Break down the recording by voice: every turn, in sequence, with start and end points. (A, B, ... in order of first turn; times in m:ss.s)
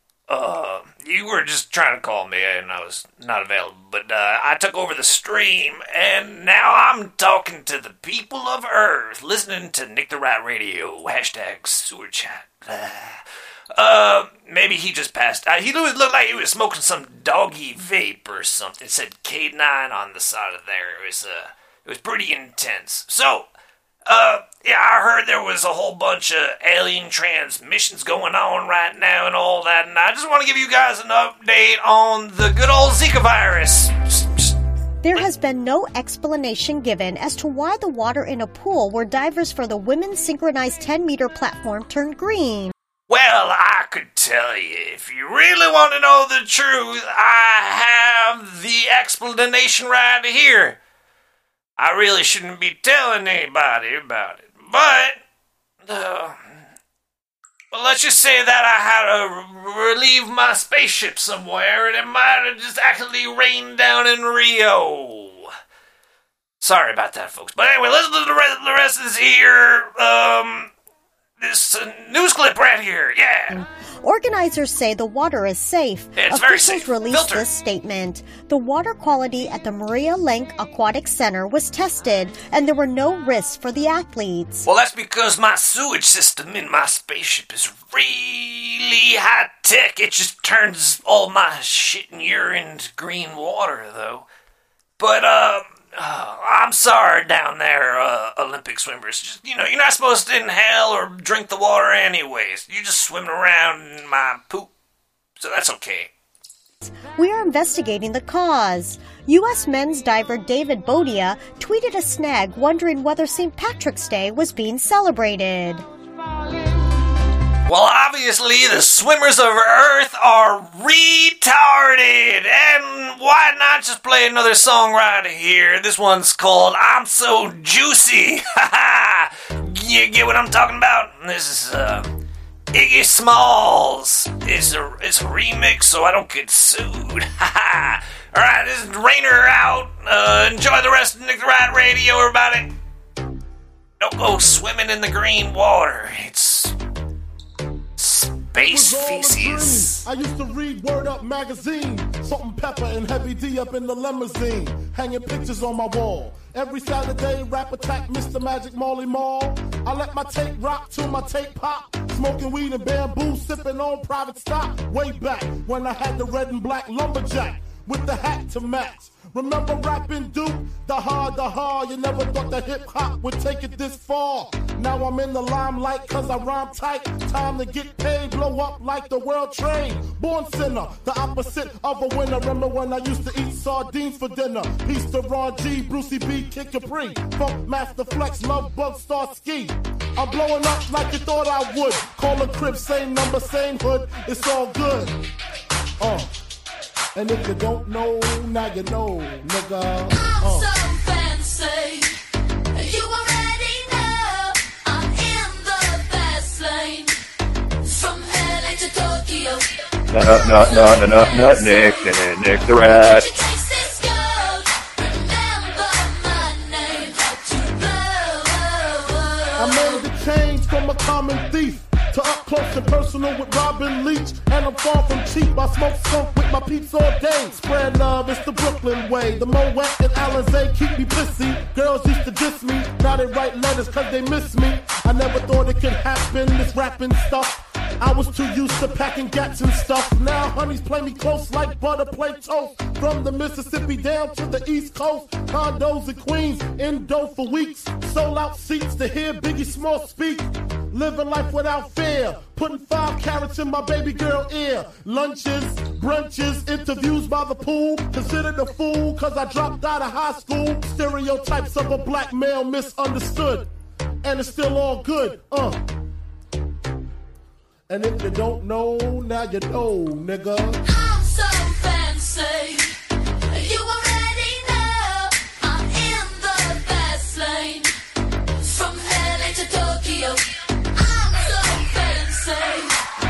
0:00.3-0:13.2 A
0:13.7-0:23.5 A
0:24.1-0:34.5 A
0:35.0-0:42.7 B
0:43.1-0:50.8 A
0:51.8-0:55.2 A
0:55.9-0:56.4 A
0:57.7-1:05.5 A
1:06.6-1:10.7 A
1:11.4-1:13.6 A
1:13.5-1:24.6 B
1:16.2-1:17.5 A
1:24.6-1:34.3 A
1:35.0-1:44.7 A
1:45.4-1:46.1 A
1:46.8-1:55.8 B
1:57.7-2:12.1 A
2:12.7-2:22.7 A
2:24.0-2:26.7 A
2:28.0-2:30.1 A
2:28.6-3:15.1 C
3:16.0-3:16.3 C
3:17.2-3:20.7 C
3:20.2-3:22.2 D
3:22.7-3:27.1 D
3:27.8-3:29.7 D
3:30.1-3:33.3 E
3:31.5-3:32.0 D
3:32.8-3:40.0 D
3:39.6-4:23.7 C
4:24.2-4:25.8 C
4:27.9-4:30.8 C
4:30.9-4:33.0 D
4:33.5-4:37.9 D
4:38.6-4:43.0 D